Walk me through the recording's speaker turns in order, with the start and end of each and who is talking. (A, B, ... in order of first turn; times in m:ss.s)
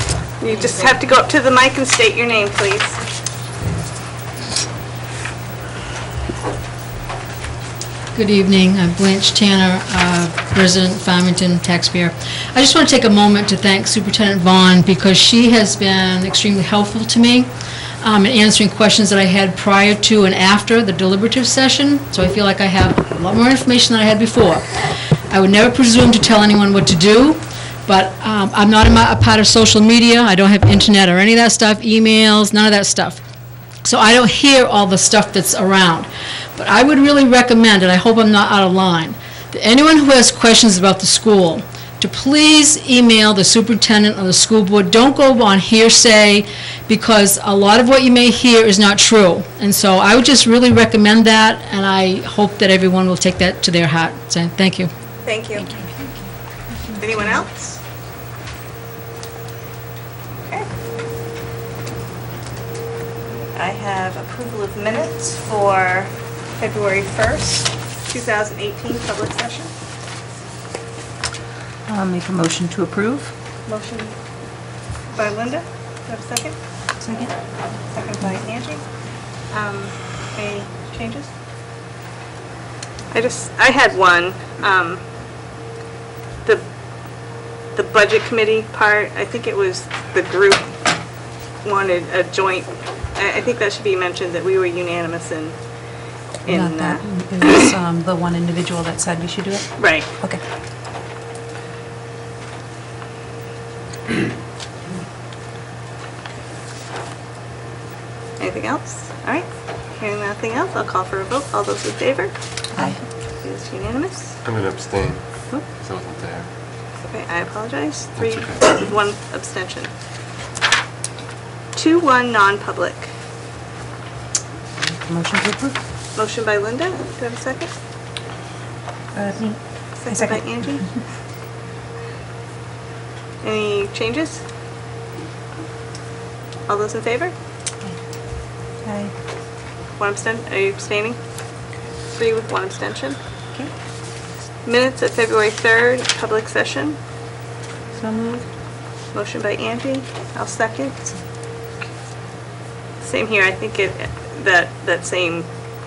0:00.4-0:03.0 A
0:08.1-0:17.5 B
0:18.0-0:24.7 B
0:25.3-0:33.2 B
0:33.8-0:54.9 B
0:55.2-0:55.7 A
0:55.6-0:56.3 C
0:57.0-0:57.6 A
1:00.4-1:00.7 A
1:03.3-1:09.7 A
1:11.9-1:13.3 C
1:13.7-1:14.1 A
1:15.1-1:16.6 A
1:17.0-1:17.3 C
1:17.9-1:18.8 A
1:19.5-1:21.3 A
1:23.1-1:25.0 A
1:27.8-1:30.7 A
1:31.6-1:35.6 A
1:36.4-1:37.7 A
1:36.4-1:40.4 C
1:39.8-1:40.1 A
1:48.4-1:52.3 A
1:52.8-1:53.0 C
1:53.4-1:54.3 A
1:54.4-1:56.5 D
1:57.1-1:59.9 A
1:58.2-1:58.6 D
2:01.7-2:03.1 A
2:05.1-2:05.7 C
2:06.1-2:07.7 A
2:09.1-2:10.4 C
2:10.0-2:10.9 A
2:13.4-2:14.4 A
2:16.7-2:17.3 A
2:18.8-2:19.1 C
2:20.0-2:21.2 A
2:22.1-2:23.2 A
2:24.6-2:27.0 A
2:28.0-2:28.4 C
2:29.1-2:31.0 A
2:33.0-2:35.5 A